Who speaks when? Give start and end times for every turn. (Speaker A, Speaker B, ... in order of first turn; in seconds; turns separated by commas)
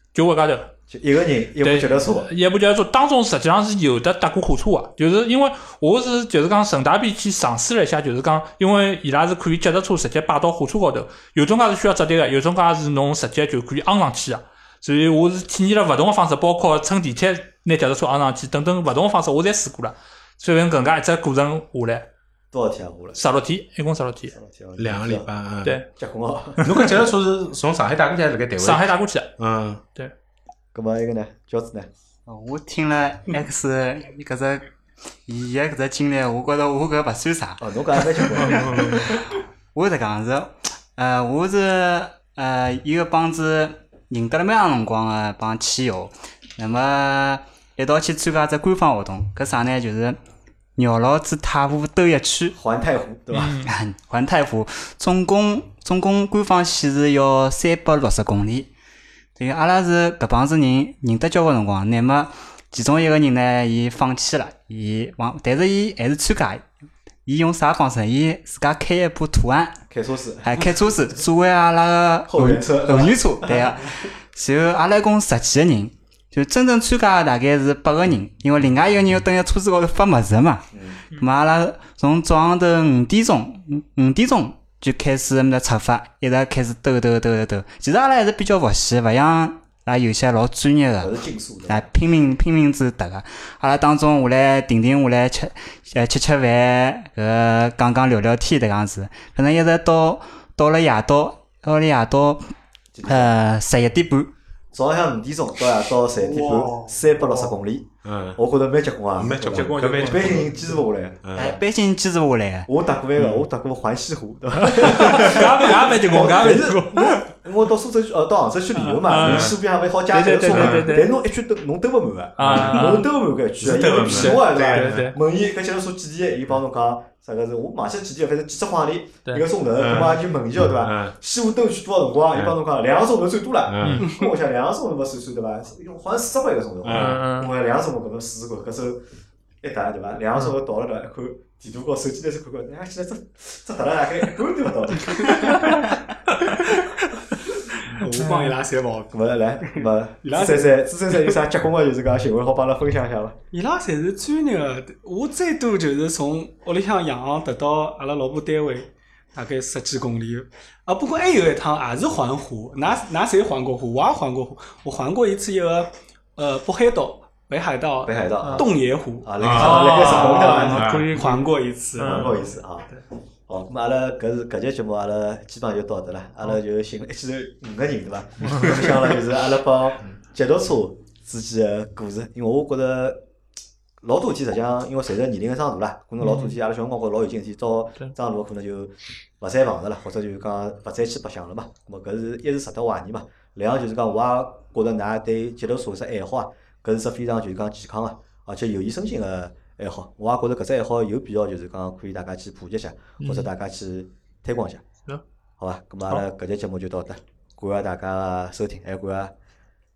Speaker A: 0.1-0.7, Speaker B: 0.9-2.3, Speaker A: 1.6-22.1, Speaker B: 22.5-23.2, Speaker A: 23.1-24.3, Speaker B: 24.3-25.3, Speaker C: 24.8-25.7, Speaker A: 25.6-25.9, Speaker B: 25.9-26.8, Speaker C: 26.6-29.8, Speaker A: 28.6-29.4, Speaker B: 30.7-31.9, Speaker D: 32.2-34.7, Speaker D: 35.2-50.2, Speaker B: 37.6-39.1, Speaker C: 38.4-39.0, Speaker D: 50.8-52.6, Speaker B: 52.5-53.6, Speaker A: 53.3-53.7, Speaker D: 53.5-58.7, Speaker D: 59.4-66.7, Speaker D: 67.2-69.8, Speaker B: 69.9-70.6, Speaker D: 70.4-102.5, Speaker B: 72.3-73.6, Speaker B: 80.7-81.0, Speaker B: 91.0-91.9, Speaker B: 102.9-103.3, Speaker D: 103.0-104.3, Speaker B: 104.7-111.5, Speaker A: 106.3-107.5, Speaker E: 106.3-106.7, Speaker C: 108.0-108.4, Speaker C: 109.2-110.5, Speaker A: 109.2-110.6, Speaker C: 111.2-111.6, Speaker D: 111.3-112.7, Speaker B: 112.7-139.0, Speaker C: 113.2-113.5, Speaker A: 114.7-117.2, Speaker A: 118.7-121.1, Speaker C: 119.2-119.5, Speaker C: 120.5-120.9, Speaker A: 122.4-123.1, Speaker C: 122.4-123.0, Speaker C: 123.6-125.1, Speaker A: 124.0-125.2, Speaker C: 129.8-131.1, Speaker C: 133.7-134.1, Speaker A: 133.8-134.1, Speaker E: 134.0-134.3, Speaker C: 136.8-137.2, Speaker A: 136.9-137.5, Speaker B: 139.6-145.6, Speaker E: 147.7-151.3, Speaker A: 148.1-148.6, Speaker B: 149.1-153.4, Speaker E: 153.5-173.0, Speaker B: 168.0-168.7, Speaker A: 168.4-168.7, Speaker B: 169.2-170.9, Speaker C: 169.4-171.1, Speaker A: 169.5-172.3, Speaker B: 172.0-172.9, Speaker B: 173.5-183.2, Speaker A: 178.4-178.7, Speaker B: 184.0-204.8, Speaker A: 186.2-186.6, Speaker A: 203.2-203.5, Speaker B: 205.6-209.3